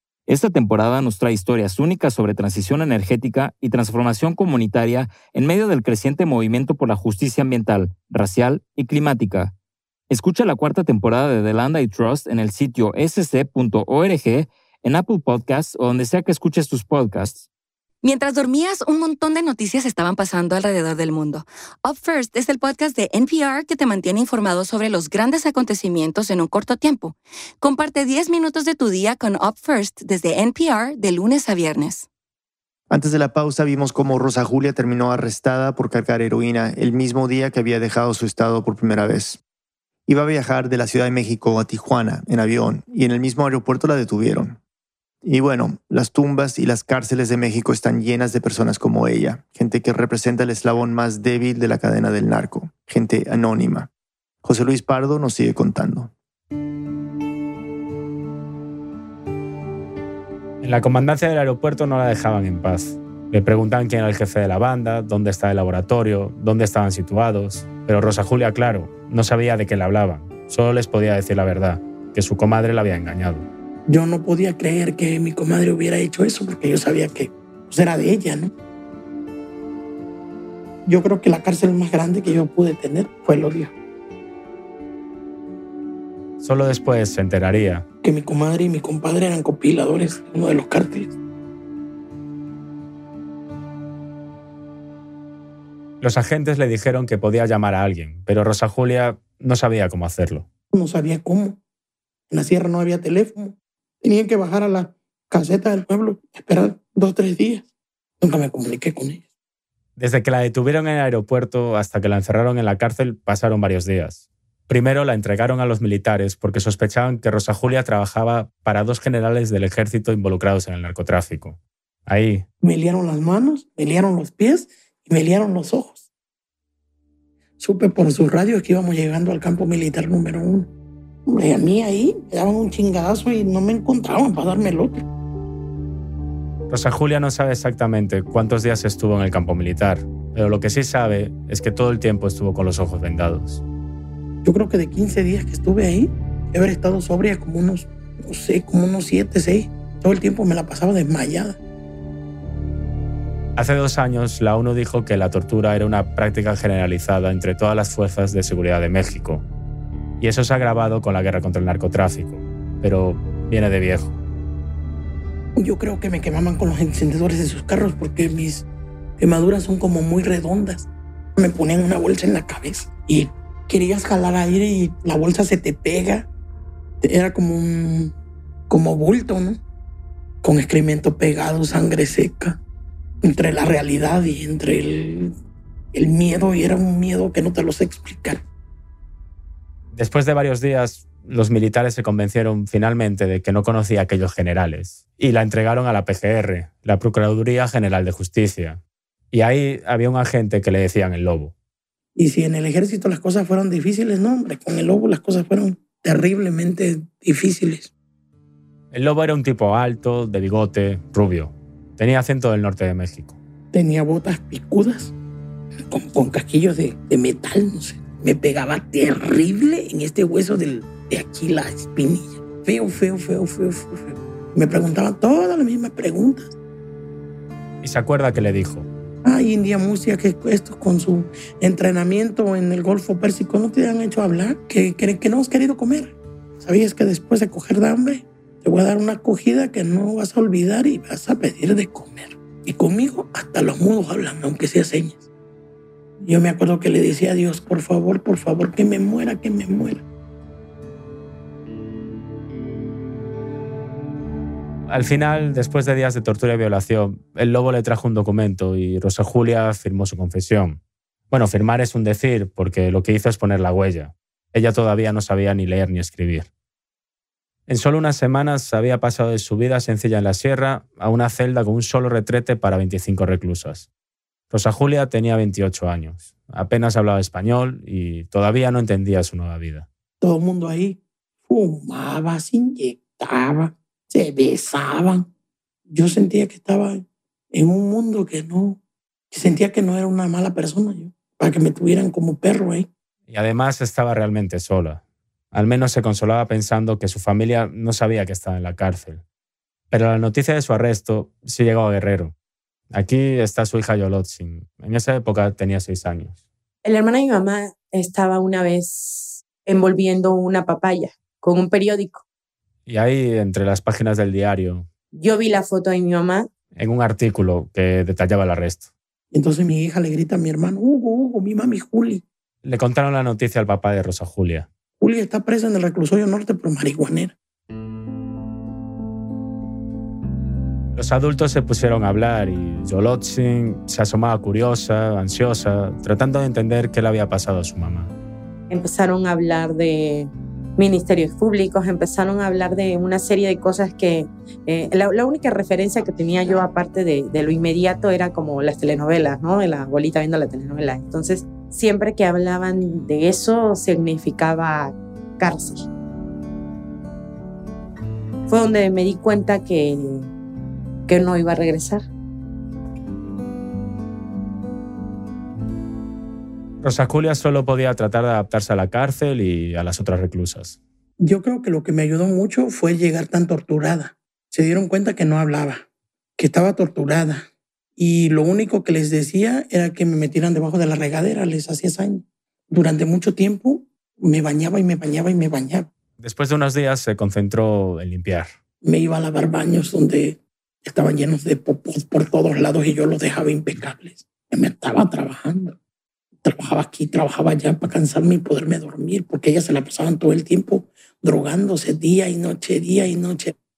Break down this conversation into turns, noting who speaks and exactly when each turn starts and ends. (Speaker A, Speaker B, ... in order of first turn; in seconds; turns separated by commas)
Speaker A: 0.3-9.5, Speaker A: 10.1-17.4, Speaker B: 18.0-32.0, Speaker C: 32.9-39.4, Speaker C: 40.1-44.6, Speaker C: 45.2-53.9, Speaker C: 54.4-56.1, Speaker D: 60.6-73.5, Speaker E: 73.9-78.5, Speaker E: 80.8-83.7, Speaker D: 86.4-87.8, Speaker E: 88.0-91.2, Speaker D: 96.0-100.4, Speaker E: 100.7-101.6, Speaker E: 102.3-107.7, Speaker E: 108.2-109.2, Speaker D: 110.0-122.4, Speaker E: 122.6-126.0, Speaker E: 127.6-130.7, Speaker E: 131.2-135.0, Speaker D: 136.7-143.6, Speaker E: 144.4-151.6, Speaker D: 153.6-159.4, Speaker D: 160.2-164.2, Speaker E: 165.6-168.7, Speaker E: 169.2-176.3, Speaker E: 177.0-178.1, Speaker E: 178.7-179.6, Speaker E: 180.4-182.6, Speaker E: 183.2-185.3, Speaker E: 185.9-188.4, Speaker D: 189.9-198.8, Speaker D: 199.3-201.5, Speaker E: 202.2-207.9, Speaker D: 208.9-213.4, Speaker E: 213.7-215.1, Speaker E: 215.9-226.5, Speaker D: 227.8-228.9, Speaker E: 229.2-245.3, Speaker E: 246.2-250.0, Speaker D: 254.9-260.8, Speaker D: 261.3-266.5, Speaker D: 267.7-273.9, Speaker D: 274.5-279.9, Speaker E: 280.2-285.3, Speaker E: 285.9-288.8, Speaker E: 289.3-292.9, Speaker D: 293.3-295.0, Speaker D: 295.5-299.2, Speaker D: 299.9-302.3, Speaker D: 302.9-306.4, Speaker F: 306.8-312.2, Speaker D: 312.9-314.9, Speaker F: 315.1-316.5, Speaker D: 316.8-318.9, Speaker E: 319.3-322.2, Speaker D: 322.6-324.7, Speaker E: 325.0-327.3, Speaker D: 330.9-338.1, Speaker F: 338.7-355.9, Speaker F: 358.5-360.3, Speaker F: 361.1-362.0, Speaker D: 366.8-370.8, Speaker E: 371.2-375.9, Speaker E: 376.4-385.9, Speaker D: 386.2-388.5, Speaker E: 388.8-395.8, Speaker E: 396.4-403.5